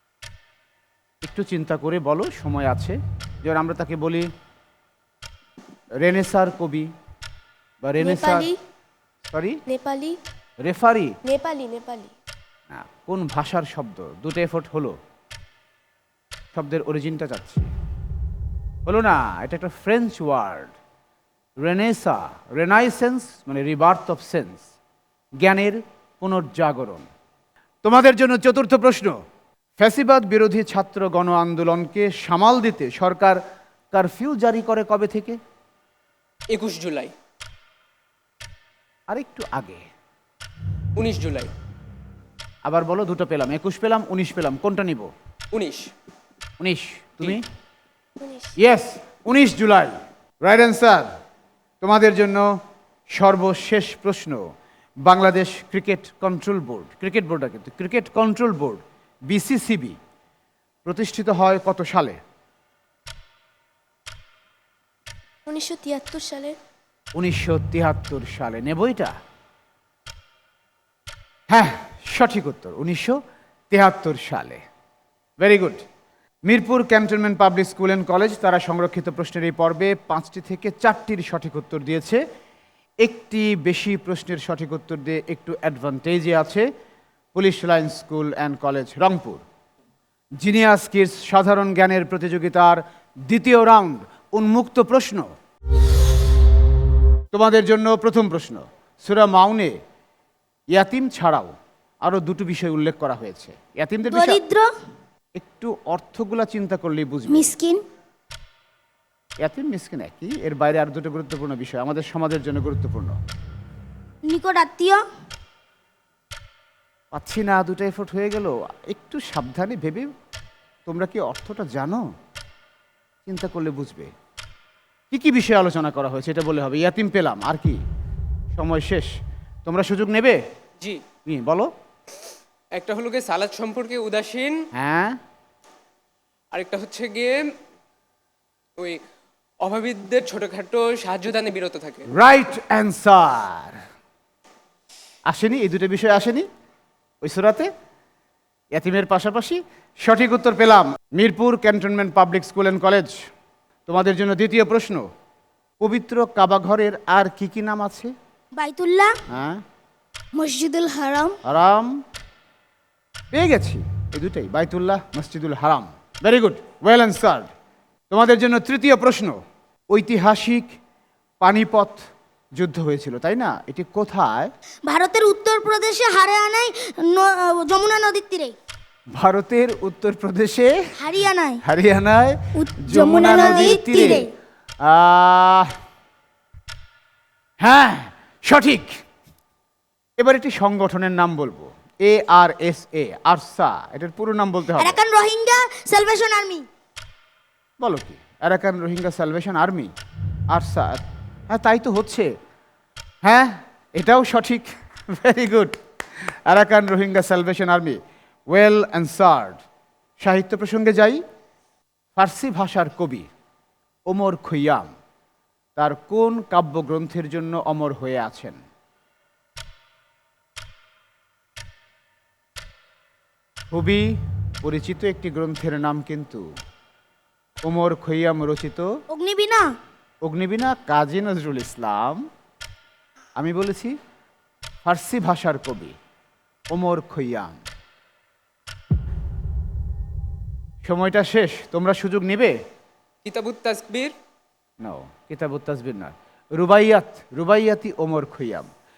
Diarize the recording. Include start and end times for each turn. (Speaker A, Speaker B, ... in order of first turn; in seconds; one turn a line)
Speaker A: 1.2-4.3
Speaker A: 6.0-6.9
Speaker A: 7.8-8.5
Speaker B: 8.0-8.6
Speaker A: 9.3-9.6
Speaker B: 9.7-10.2
Speaker A: 10.6-11.2
Speaker B: 11.2-12.1
Speaker A: 12.7-15.0
Speaker A: 16.5-17.7
Speaker A: 18.9-20.7
Speaker A: 21.6-24.6
Speaker A: 25.4-27.1
Speaker A: 27.8-29.1
Speaker A: 29.8-33.4
Speaker A: 33.9-35.4
Speaker C: 36.5-37.1
Speaker A: 39.1-39.8
Speaker C: 41.0-41.5
Speaker A: 42.6-45.1
Speaker C: 45.5-45.9
Speaker A: 46.6-47.4
Speaker B: 48.2-48.5
Speaker A: 48.6-51.1
Speaker A: 51.8-52.5
Speaker A: 53.1-54.4
Speaker A: 55.0-60.0
Speaker A: 60.8-62.2
Speaker B: 65.5-66.5
Speaker A: 67.2-69.1
Speaker A: 71.5-73.2
Speaker A: 73.7-74.6
Speaker A: 75.4-75.8
Speaker A: 76.5-82.2
Speaker A: 83.0-86.7
Speaker A: 87.3-89.4
Speaker A: 90.4-95.3
Speaker A: 97.3-99.8
Speaker A: 100.7-104.4
Speaker D: 104.1-104.7
Speaker A: 105.3-107.5
Speaker D: 107.3-107.8
Speaker A: 109.4-113.2
Speaker D: 114.3-115.0
Speaker A: 117.1-120.1
Speaker A: 120.8-122.0
Speaker A: 123.2-124.1
Speaker A: 125.1-127.8
Speaker A: 128.5-129.1
Speaker A: 129.6-130.4
Speaker A: 131.2-131.7
Speaker C: 132.7-134.6
Speaker A: 134.7-135.2
Speaker C: 136.5-137.4
Speaker C: 139.6-142.1
Speaker A: 142.1-143.8
Speaker A: 145.3-146.5
Speaker A: 147.2-147.7
Speaker A: 148.7-153.1
Speaker A: 153.9-155.1
Speaker A: 155.8-158.1
Speaker D: 158.6-159.2
Speaker A: 159.3-159.6
Speaker D: 160.3-161.4
Speaker A: 161.4-162.0
Speaker A: 163.3-167.5
Speaker A: 168.1-169.4
Speaker A: 169.9-170.8
Speaker A: 171.4-172.0
Speaker A: 172.6-174.5
Speaker D: 174.9-178.5
Speaker A: 179.2-180.7
Speaker D: 181.0-181.6
Speaker A: 181.6-184.2
Speaker D: 182.6-184.3
Speaker A: 184.8-185.7
Speaker A: 187.6-188.9
Speaker A: 190.2-195.0
Speaker D: 194.8-196.6
Speaker A: 197.8-199.9
Speaker A: 200.5-202.3
Speaker A: 203.2-205.7
Speaker A: 206.5-208.0
Speaker A: 208.5-209.6
Speaker A: 210.2-211.2
Speaker A: 212.2-213.3
Speaker A: 214.1-214.9
Speaker A: 215.8-218.6
Speaker A: 223.7-226.4
Speaker A: 227.7-228.9
Speaker D: 229.1-229.7
Speaker A: 230.2-232.2
Speaker A: 233.3-233.9
Speaker A: 234.8-235.9
Speaker A: 236.7-237.6
Speaker A: 240.8-242.6
Speaker C: 243.2-244.1
Speaker A: 244.8-248.7